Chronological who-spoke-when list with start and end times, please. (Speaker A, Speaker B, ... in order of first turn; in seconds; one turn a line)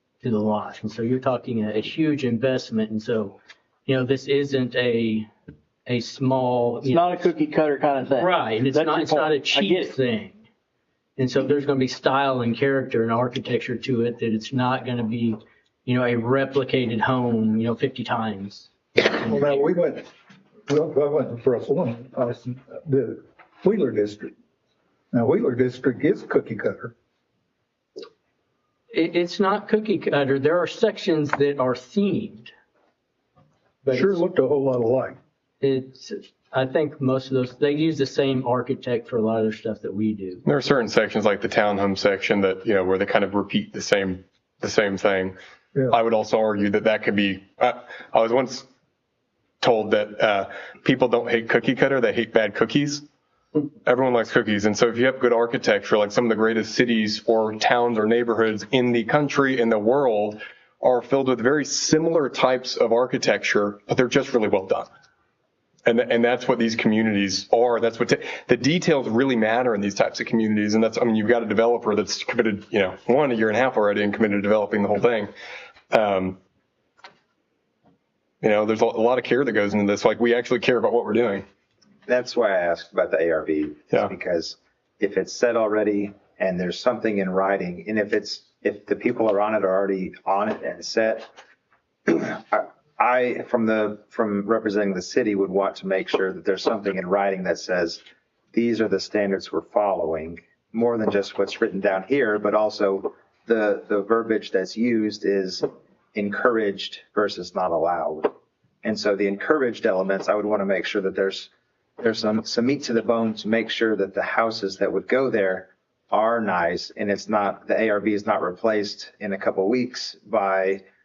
Speaker A: 0.2-5.3
Speaker A: 5.8-7.2
Speaker B: 6.8-9.9
Speaker A: 8.2-10.4
Speaker A: 11.2-19.7
Speaker C: 19.0-20.1
Speaker C: 20.7-24.3
Speaker C: 25.1-26.9
Speaker A: 28.9-32.5
Speaker C: 33.8-35.2
Speaker A: 33.9-34.1
Speaker A: 35.6-40.4
Speaker D: 40.5-45.4
Speaker D: 45.9-48.7
Speaker D: 49.6-53.0
Speaker D: 53.9-64.9
Speaker D: 65.8-75.3
Speaker D: 75.9-76.4
Speaker D: 78.4-81.5
Speaker E: 82.1-91.3
Speaker E: 92.1-98.0
Speaker E: 98.5-108.3
Speaker E: 108.8-120.8